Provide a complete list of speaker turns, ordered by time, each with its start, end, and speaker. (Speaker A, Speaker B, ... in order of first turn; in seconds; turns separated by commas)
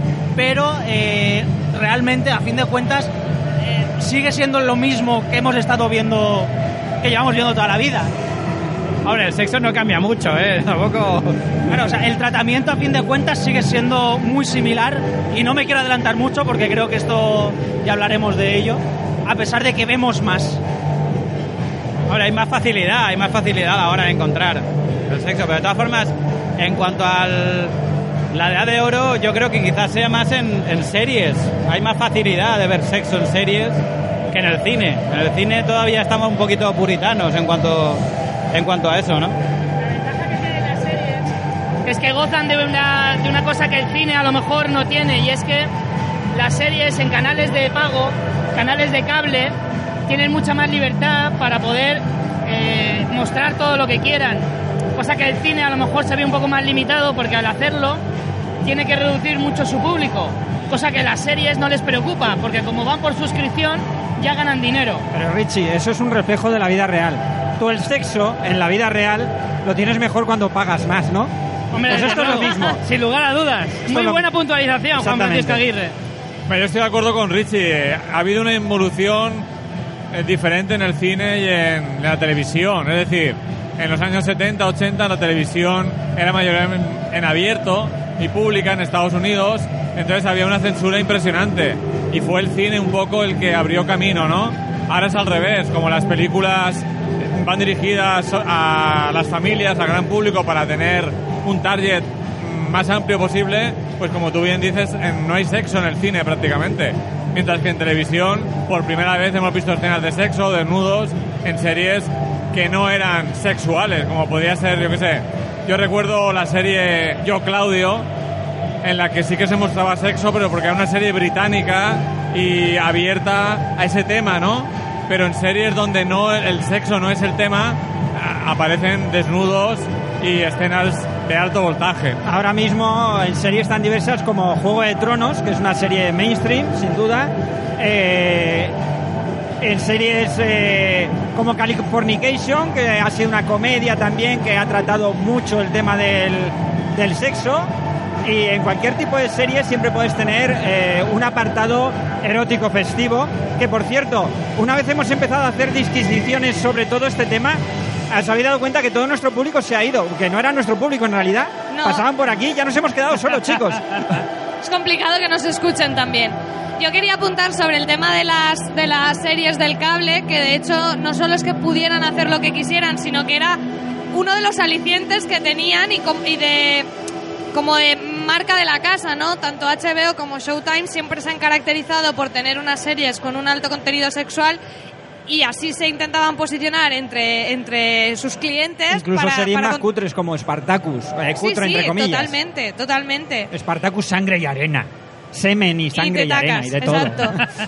Speaker A: 0.3-3.1, Speaker A: 3.6-8.1, Speaker B: 9.0-11.4, Speaker A: 11.7-20.6, Speaker B: 22.1-27.7, Speaker B: 28.3-39.4, Speaker C: 39.8-41.3, Speaker C: 41.8-45.7, Speaker C: 46.3-49.5, Speaker C: 50.1-58.0, Speaker C: 58.6-65.0, Speaker D: 65.1-71.3, Speaker C: 71.7-75.9, Speaker D: 71.9-72.8, Speaker D: 73.9-74.3, Speaker D: 74.9-75.6, Speaker E: 76.5-79.5, Speaker E: 80.1-118.1, Speaker E: 118.8-132.2, Speaker D: 132.2-138.7, Speaker D: 139.6-147.7, Speaker D: 148.2-164.2, Speaker F: 161.7-162.0, Speaker F: 164.6-173.6, Speaker F: 174.1-176.9, Speaker F: 177.5-184.6, Speaker F: 185.3-189.8, Speaker D: 188.9-192.3, Speaker F: 191.4-193.5, Speaker D: 193.5-197.3, Speaker F: 195.9-197.4